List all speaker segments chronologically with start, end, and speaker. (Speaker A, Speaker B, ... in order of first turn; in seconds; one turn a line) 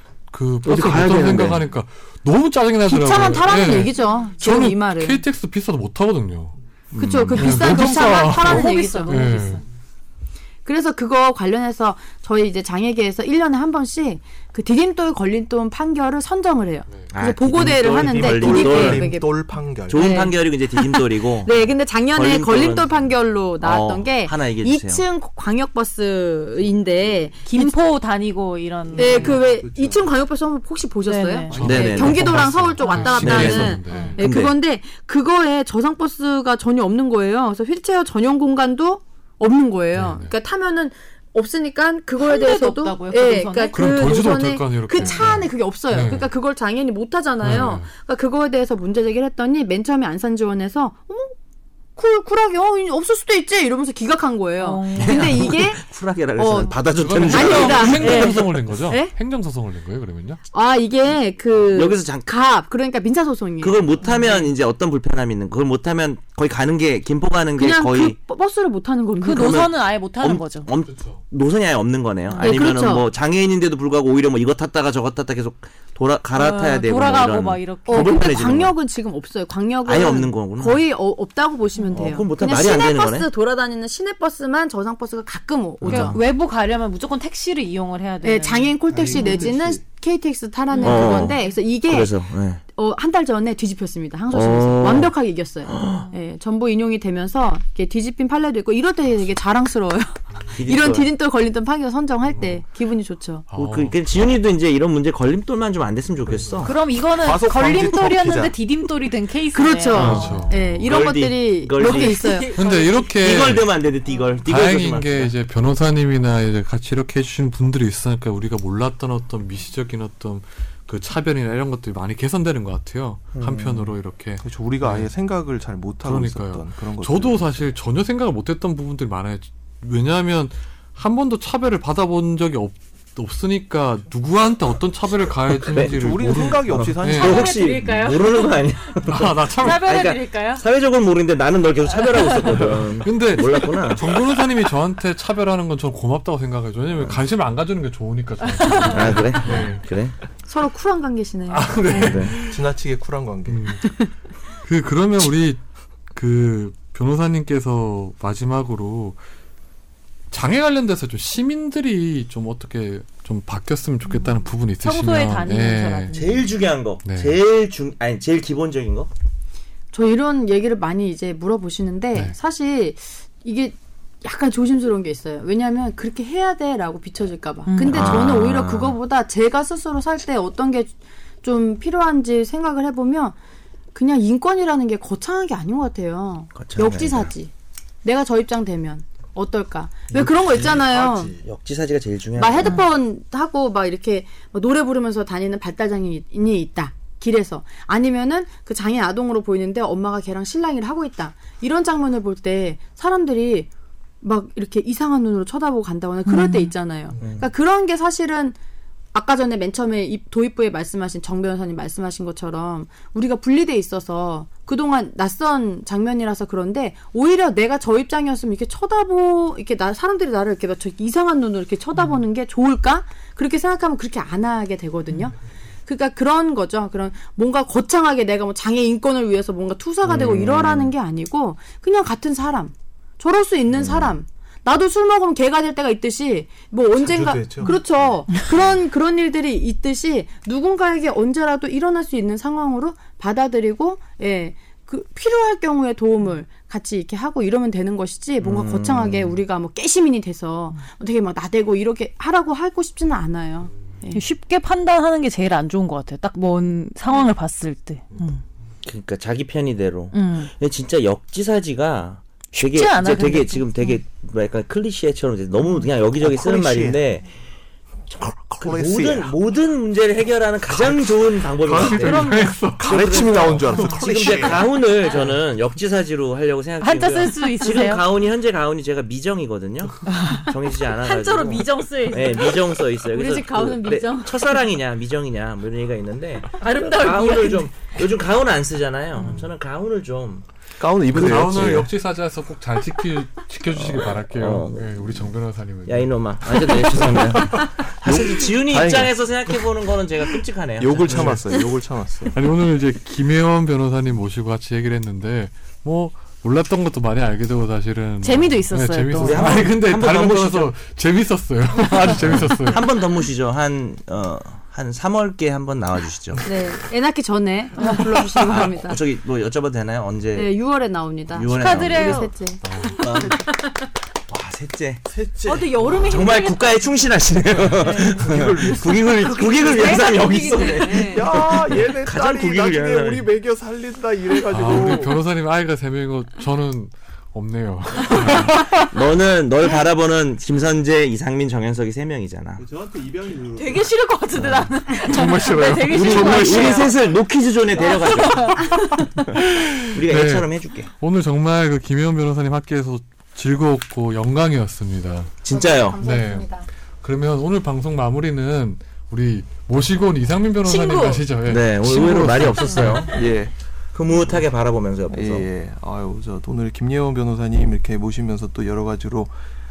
Speaker A: 0.3-6.6
Speaker B: 0.6-1.6
Speaker C: 2.8-5.2
Speaker B: 6.9-7.6
Speaker C: 7.0-9.2
Speaker A: 7.3-9.6
Speaker D: 7.6-9.6
Speaker C: 10.7-19.4
Speaker B: 17.1-19.1
Speaker E: 17.6-20.1
Speaker A: 18.6-19.0
Speaker B: 19.9-22.9
Speaker C: 19.9-27.8
Speaker B: 23.6-25.0
Speaker D: 27.4-29.4
Speaker C: 28.9-51.3
Speaker E: 29.0-30.0
Speaker D: 31.0-32.0
Speaker A: 31.5-34.2
Speaker B: 31.6-32.5
Speaker D: 32.8-34.2
Speaker B: 33.2-34.5
Speaker A: 39.9-40.3
Speaker D: 42.2-43.8
Speaker A: 43.7-46.3
Speaker D: 45.0-45.3
Speaker A: 47.4-47.9
Speaker C: 52.0-55.8
Speaker D: 54.6-55.3
Speaker B: 55.0-58.2
Speaker C: 56.4-59.1
Speaker A: 56.8-60.4
Speaker D: 58.0-58.4
Speaker C: 60.5-64.5
Speaker B: 61.6-62.3
Speaker B: 63.6-68.2
Speaker D: 64.0-64.4
Speaker C: 67.6-69.7
Speaker D: 69.2-70.7
Speaker B: 69.3-78.7
Speaker A: 70.9-71.2
Speaker D: 72.3-72.8
Speaker C: 72.4-73.1
Speaker D: 76.3-78.3
Speaker C: 77.9-86.2
Speaker B: 79.8-80.8
Speaker D: 81.7-82.1
Speaker B: 81.9-83.3
Speaker B: 85.8-86.2
Speaker D: 85.8-89.5
Speaker C: 88.2-103.4
Speaker E: 88.9-89.8
Speaker D: 90.7-91.2
Speaker B: 90.8-92.6
Speaker B: 94.3-95.1
Speaker B: 95.7-96.1
Speaker B: 100.5-101.1
Speaker A: 103.5-104.0
Speaker B: 103.5-106.7
Speaker E: 106.2-108.6
Speaker D: 106.6-110.5
Speaker C: 109.5-112.6
Speaker A: 109.9-110.9
Speaker B: 110.8-112.4
Speaker D: 111.8-113.4
Speaker A: 112.5-113.7
Speaker B: 113.2-115.3
Speaker A: 114.4-125.1
Speaker B: 123.3-123.9
Speaker E: 124.4-127.5
Speaker A: 126.0-137.5
Speaker B: 135.7-136.0
Speaker E: 135.8-137.7
Speaker B: 136.7-144.2
Speaker D: 137.2-138.6
Speaker A: 139.0-139.9
Speaker D: 139.6-140.6
Speaker A: 142.7-149.8
Speaker D: 148.6-149.2
Speaker B: 148.9-150.1
Speaker C: 150.5-152.2
Speaker A: 151.5-152.6
Speaker E: 152.0-153.7
Speaker B: 152.0-152.3
Speaker A: 153.5-153.8
Speaker C: 153.8-154.1
Speaker A: 154.6-155.6
Speaker A: 156.1-159.2
Speaker A: 160.3-166.2
Speaker D: 164.1-166.5
Speaker B: 166.1-169.1
Speaker A: 167.0-167.4
Speaker C: 169.9-183.3
Speaker D: 177.7-178.1
Speaker B: 177.8-178.9
Speaker C: 183.9-187.5
Speaker B: 186.5-187.3
Speaker C: 188.0-191.3
Speaker E: 190.1-191.4
Speaker B: 191.4-192.8
Speaker C: 192.3-203.7
Speaker C: 204.2-208.6
Speaker D: 206.2-206.7
Speaker B: 207.2-207.4
Speaker C: 209.1-254.2
Speaker B: 230.0-230.9
Speaker B: 233.7-234.1
Speaker E: 236.9-237.8
Speaker B: 248.4-249.4
Speaker D: 254.1-258.4
Speaker B: 258.8-267.3
Speaker D: 260.1-260.5
Speaker D: 262.7-264.0
Speaker E: 266.1-267.0
Speaker B: 268.1-290.4
Speaker E: 268.2-269.4
Speaker E: 270.7-274.8
Speaker A: 271.7-273.8
Speaker D: 272.0-272.5
Speaker D: 276.8-278.0
Speaker D: 280.1-280.5
Speaker D: 281.0-284.5
Speaker D: 286.6-287.7
Speaker E: 290.8-291.9
Speaker A: 291.1-297.7
Speaker B: 291.3-291.9
Speaker B: 293.7-295.3
Speaker B: 295.8-301.4
Speaker E: 297.3-299.3
Speaker E: 300.8-302.4
Speaker A: 301.0-301.4
Speaker A: 302.3-312.9
Speaker D: 308.2-309.7
Speaker B: 309.2-310.7
Speaker B: 311.8-316.4
Speaker C: 316.4-319.0
Speaker D: 317.8-318.0
Speaker B: 318.5-320.5
Speaker C: 320.3-322.6
Speaker B: 321.3-322.3
Speaker D: 321.4-323.1
Speaker A: 322.6-323.0
Speaker B: 323.0-323.4
Speaker E: 323.1-323.4
Speaker C: 323.4-323.7
Speaker B: 324.3-325.0
Speaker E: 325.1-326.3
Speaker D: 325.4-327.2
Speaker B: 325.9-333.3
Speaker E: 327.6-329.1
Speaker D: 327.7-328.3
Speaker D: 329.2-331.2
Speaker C: 329.7-331.0
Speaker E: 331.0-335.2
Speaker A: 334.5-338.9
Speaker B: 338.7-342.6
Speaker E: 342.6-343.9
Speaker D: 343.5-347.1
Speaker A: 344.4-346.9
Speaker B: 345.8-348.7
Speaker D: 347.8-349.1
Speaker A: 349.3-355.4
Speaker B: 349.9-350.9
Speaker B: 355.4-356.0
Speaker C: 355.5-356.7
Speaker A: 356.0-363.1
Speaker C: 360.7-361.2
Speaker D: 360.8-361.2
Speaker B: 361.4-363.2
Speaker E: 362.2-363.5
Speaker B: 363.9-365.5
Speaker E: 365.1-369.3